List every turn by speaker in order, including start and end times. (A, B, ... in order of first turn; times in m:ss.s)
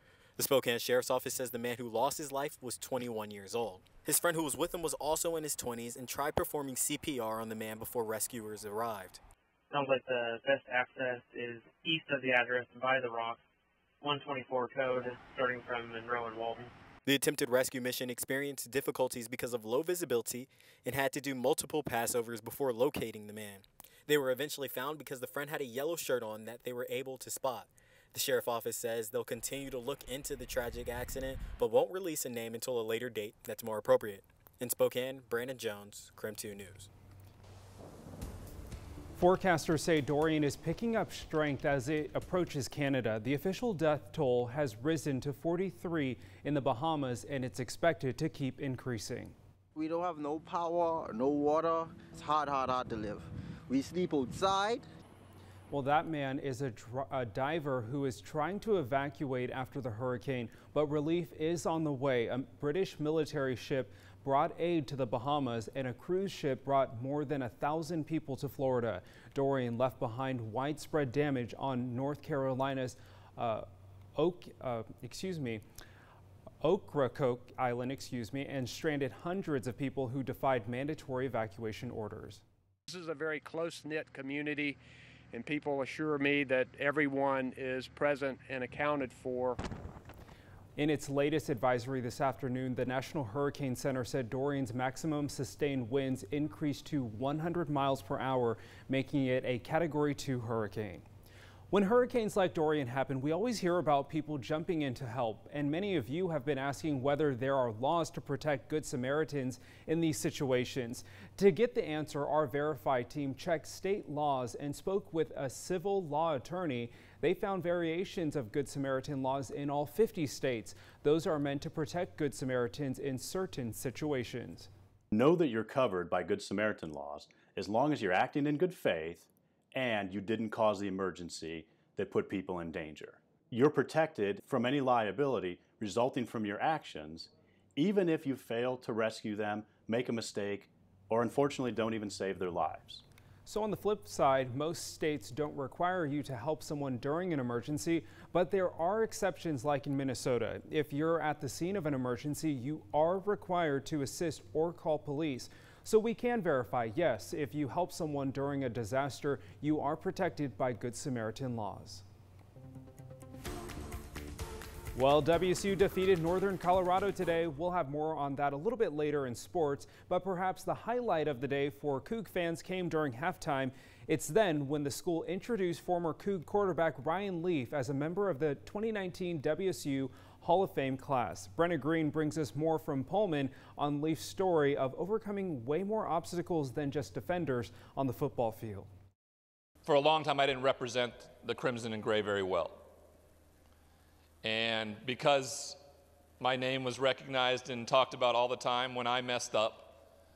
0:00.4-0:09.2 A
0:09.7-0:13.4 B
0:14.0-0:16.7 B
0:17.0-0:36.9 A
0:39.2-0:49.3 C
0:49.7-0:54.8 D
0:55.7-1:15.6 C
1:16.6-1:22.4 C
1:22.9-1:24.8 E
1:25.3-1:29.6 E
1:30.8-1:41.0 C
1:41.7-2:04.7 C
2:05.1-2:23.0 F
2:23.4-2:42.0 C
2:44.9-3:08.9 C
3:09.8-3:12.8 G
3:14.4-3:15.8 G
3:16.4-3:20.0 G